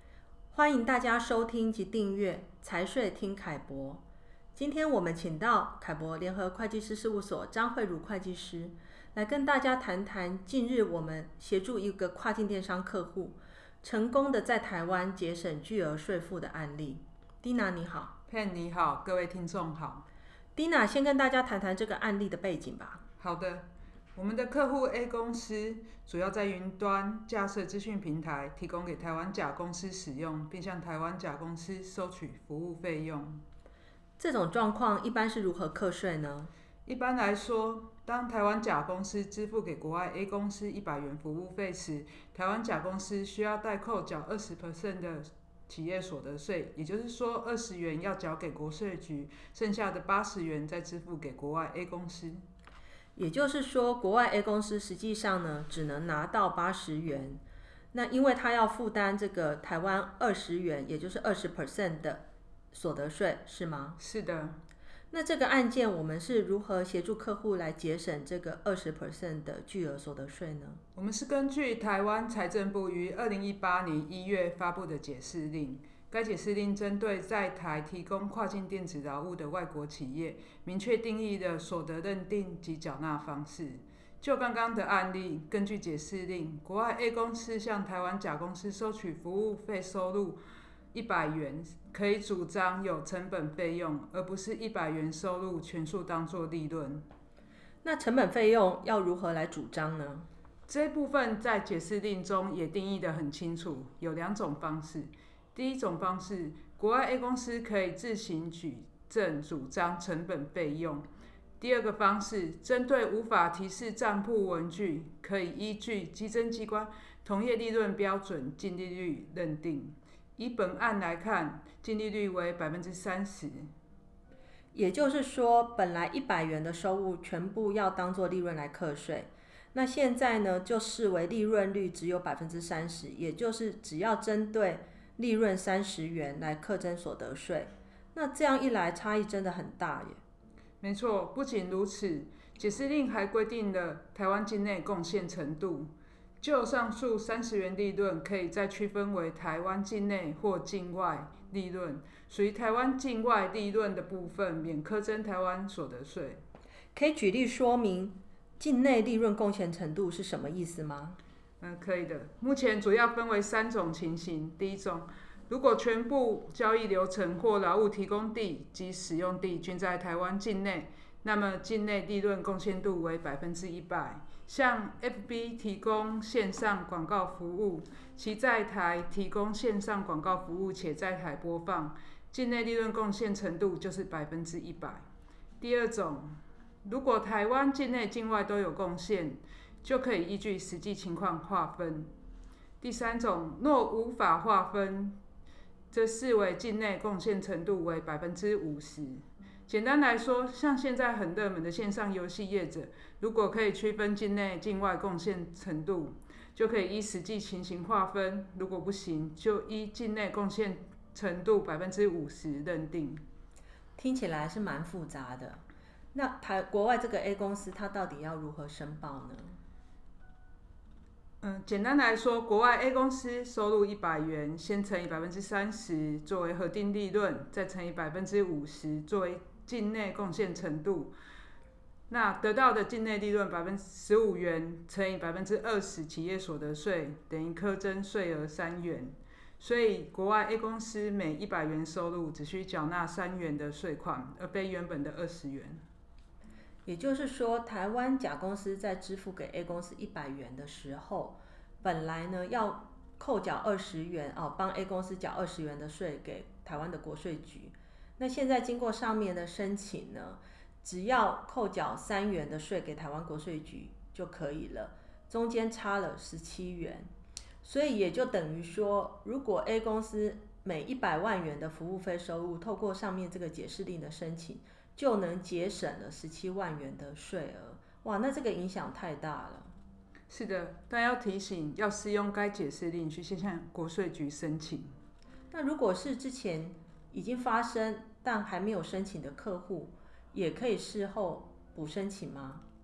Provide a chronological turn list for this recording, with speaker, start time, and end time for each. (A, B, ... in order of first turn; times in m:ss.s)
0:00.5-0:04.0 A
0:04.6-0:18.1 A
0:18.3-0:20.1 B
0:20.6-0:23.0 A
0:23.2-0:33.4 B
0:34.2-0:36.5 A
0:36.9-0:52.4 B
0:53.2-0:57.4 A
0:57.9-1:04.0 A
1:04.0-1:04.6 B
1:05.1-1:10.8 A
1:11.0-1:30.4 B
1:30.9-1:37.0 B
1:37.8-1:40.3 A
1:40.7-1:51.1 B
1:51.6-2:03.7 B
2:04.7-2:20.2 A
2:20.8-2:36.4 B
2:37.0-2:41.2 A
2:41.6-3:05.0 B
3:05.6-3:12.1 B
3:12.8-3:15.2 B
3:15.9-3:33.2 B
3:34.0-3:35.6 A
3:36.1-3:39.6 A
3:41.4-3:51.1 B
3:52.1-4:05.8 B
4:06.9-4:27.1 A
4:27.6-4:39.7 A
4:40.3-4:44.9 B
4:45.5-4:52.6 A